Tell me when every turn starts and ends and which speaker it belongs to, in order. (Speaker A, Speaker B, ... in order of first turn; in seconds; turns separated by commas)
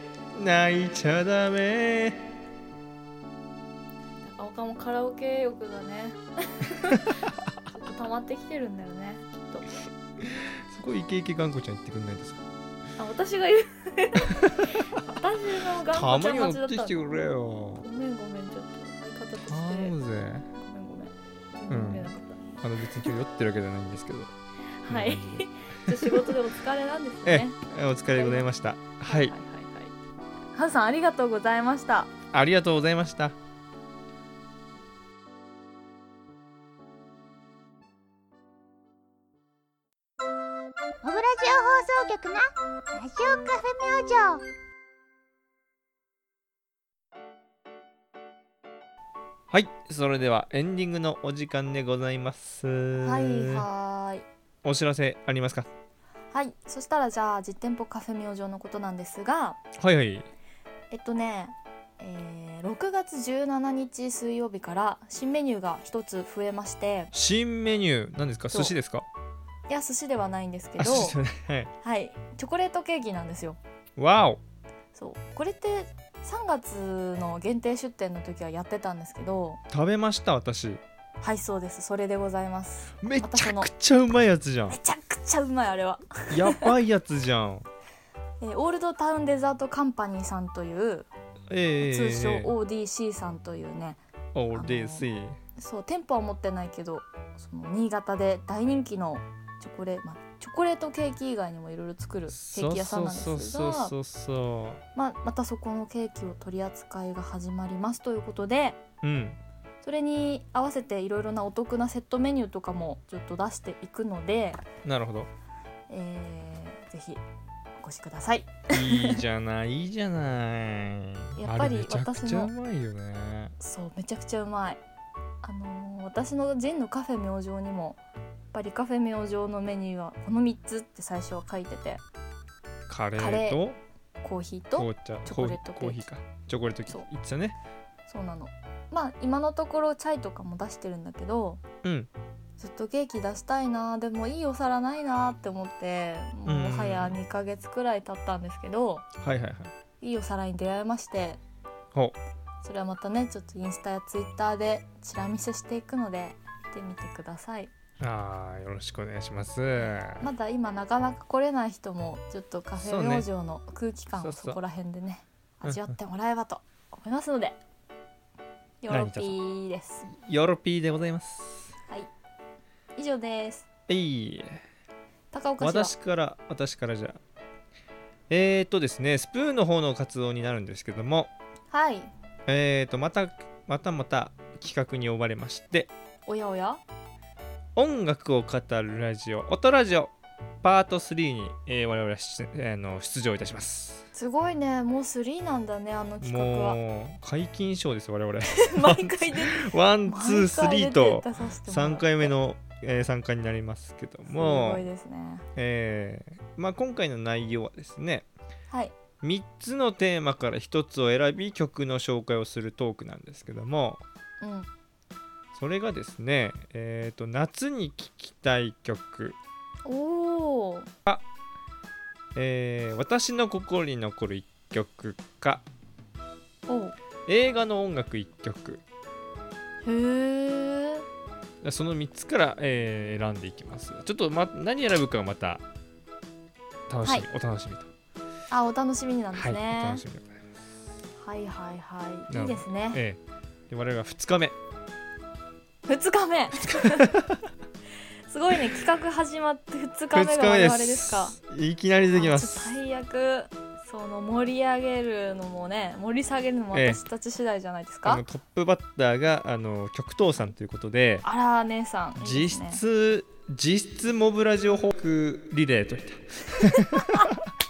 Speaker A: 0.3-2.3, Speaker B: 4.2-9.7, Speaker A: 10.2-12.4, Speaker B: 13.0-17.2, Speaker A: 15.9-17.8, Speaker B: 17.8-19.9, Speaker A: 19.4-20.5, Speaker B: 20.5-23.1, Speaker A: 21.7-24.3, Speaker B: 24.8-27.6, Speaker A: 24.9-26.3, Speaker A: 27.2-29.3, Speaker B: 28.1-28.5, Speaker B: 29.0-29.9, Speaker B: 30.5-32.1, Speaker A: 32.3-33.4, Speaker C: 41.0-44.4, Speaker A: 49.5-53.6, Speaker B: 53.0-54.2, Speaker A: 54.6-55.7, Speaker B: 56.3-59.6, Speaker A: 59.8-60.3, Speaker B: 60.9-67.1, Speaker A: 67.1-69.1, Speaker B: 69.7-71.2, Speaker A: 70.8-71.7, Speaker B: 71.8-73.6, Speaker A: 74.0-74.4, Speaker B: 74.9-79.6, Speaker A: 79.7-80.8, Speaker B: 81.2-83.7, Speaker A: 83.0-84.8, Speaker B: 84.7-86.7, Speaker A: 86.3-87.7, Speaker B: 88.4-91.1, Speaker A: 91.5-92.5, Speaker B: 91.8-94.0, Speaker A: 94.3-95.4, Speaker B: 94.5-103.9, Speaker A: 102.3-104.8, Speaker B: 104.9-108.8, Speaker A: 109.0-109.4, Speaker B: 109.8-114.6, Speaker A: 114.8-115.3, Speaker B: 115.9-117.2, Speaker B: 117.8-119.2, Speaker A: 118.7-123.5, Speaker B: 121.4-122.5, Speaker B: 123.6-124.8, Speaker B: 125.4-128.0, Speaker B: 128.5-132.0, Speaker A: 132.9-133.8, Speaker B: 133.2-133.6, Speaker B: 134.2-136.0, Speaker A: 134.7-137.6, Speaker B: 138.1-141.6, Speaker A: 141.8-142.1, Speaker B: 142.6-149.1, Speaker A: 146.5-147.2, Speaker A: 149.2-149.7, Speaker B: 150.0-151.4, Speaker B: 152.6-157.7, Speaker A: 158.0-160.3, Speaker B: 160.2-167.6, Speaker A: 162.8-163.3, Speaker A: 164.2-164.6, Speaker B: 168.8-170.1, Speaker A: 168.9-169.3, Speaker A: 170.0-171.7, Speaker B: 172.9-173.7, Speaker A: 173.9-174.6, Speaker B: 175.3-175.9, Speaker A: 175.6-177.2, Speaker A: 178.3-181.3, Speaker B: 181.7-182.1, Speaker A: 182.5-185.9, Speaker B: 186.3-186.8, Speaker A: 187.8-194.1, Speaker B: 194.1-196.8, Speaker A: 196.2-204.9, Speaker B: 198.5-202.3, Speaker B: 204.3-205.4, Speaker A: 205.5-208.3, Speaker A: 209.2-214.0, Speaker B: 214.4-214.7, Speaker A: 215.5-219.4, Speaker B: 219.8-220.9, Speaker A: 222.3-225.6, Speaker B: 226.7-226.9, Speaker A: 227.2-228.8, Speaker B: 229.8-231.0, Speaker A: 231.6-235.6, Speaker A: 236.9-237.9, Speaker B: 238.5-240.0, Speaker A: 239.3-240.5, Speaker B: 241.2-243.0, Speaker A: 242.3-244.5, Speaker B: 245.9-247.2, Speaker A: 246.5-247.4, Speaker B: 248.3-251.4, Speaker A: 250.1-252.7, Speaker B: 252.1-258.2, Speaker A: 256.7-257.0, Speaker A: 258.0-261.2, Speaker B: 261.2-262.8, Speaker A: 262.2-267.4, Speaker B: 266.6-267.3